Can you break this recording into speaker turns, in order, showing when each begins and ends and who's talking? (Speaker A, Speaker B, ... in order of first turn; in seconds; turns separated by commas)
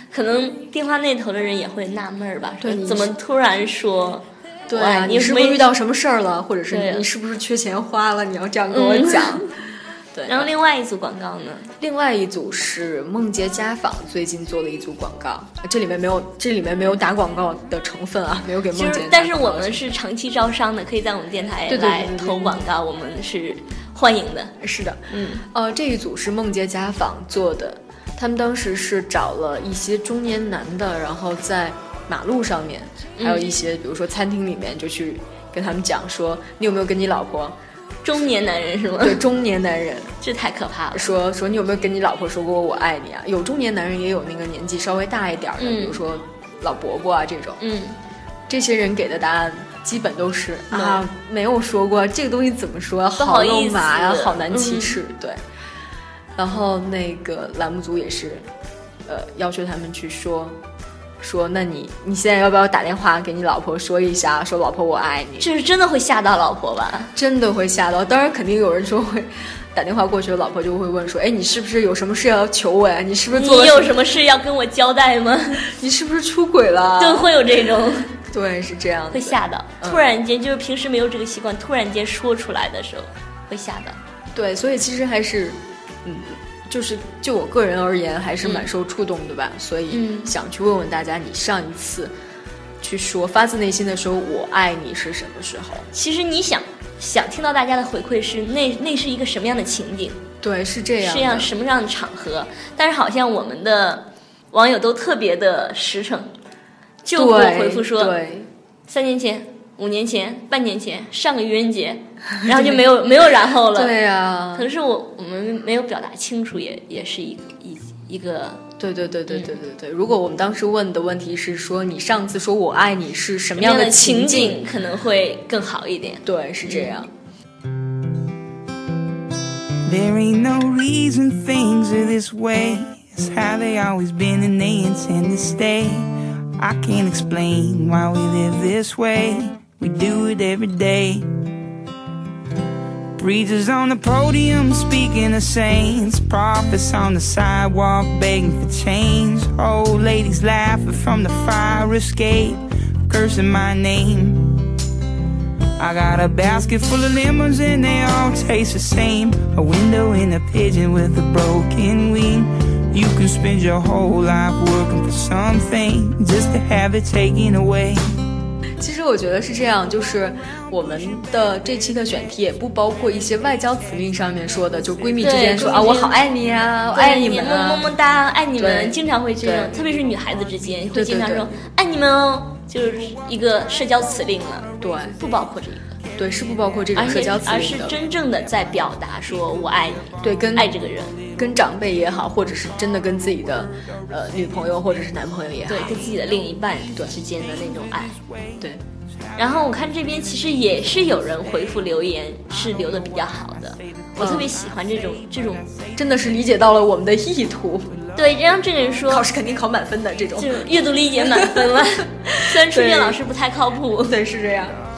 Speaker A: 0.1-5.7, Speaker B: 2.6-3.1, Speaker B: 4.7-9.5, Speaker A: 6.7-7.1, Speaker A: 8.7-9.4, Speaker B: 10.2-10.5, Speaker A: 10.2-11.7, Speaker B: 11.8-19.8, Speaker A: 18.7-24.5, Speaker B: 21.7-22.6, Speaker B: 24.6-37.6, Speaker A: 25.1-25.4, Speaker A: 33.2-33.5, Speaker A: 38.0-39.2, Speaker B: 39.0-40.1, Speaker A: 40.2-41.1, Speaker B: 40.9-47.6, Speaker A: 45.6-46.0, Speaker A: 47.6-48.0, Speaker B: 48.5-55.4, Speaker A: 50.7-51.0, Speaker A: 53.2-55.0, Speaker B: 56.4-58.5, Speaker B: 59.1-60.6, Speaker B: 61.2-65.5, Speaker A: 65.4-67.1, Speaker B: 67.2-74.0, Speaker A: 73.3-75.7, Speaker B: 75.7-77.3, Speaker A: 77.0-78.1, Speaker B: 78.3-80.0, Speaker A: 79.1-84.0, Speaker B: 84.3-92.1, Speaker A: 89.9-90.3, Speaker B: 92.8-95.9, Speaker A: 95.9-100.2, Speaker B: 100.4-101.5, Speaker A: 101.0-106.3, Speaker A: 107.0-108.2, Speaker B: 107.2-108.5, Speaker A: 108.9-114.0, Speaker B: 112.5-112.9, Speaker B: 113.7-114.7, Speaker A: 114.5-118.6, Speaker B: 118.8-124.6, Speaker A: 123.6-127.0, Speaker B: 126.2-127.1, Speaker C: 129.8-141.3, Speaker C: 143.2-154.7, Speaker C: 155.8-168.1, Speaker B: 168.8-177.9, Speaker A: 175.2-176.2, Speaker A: 176.9-185.9, Speaker B: 178.6-179.7, Speaker B: 180.9-181.5, Speaker B: 184.8-185.1, Speaker B: 186.2-188.0, Speaker A: 186.9-191.2, Speaker B: 190.2-190.7, Speaker B: 191.4-196.1, Speaker A: 195.7-198.2, Speaker A: 199.4-205.7, Speaker B: 204.2-204.5, Speaker B: 206.0-207.9, Speaker A: 208.2-209.3, Speaker B: 209.1-213.2, Speaker A: 210.4-214.2, Speaker B: 214.0-214.8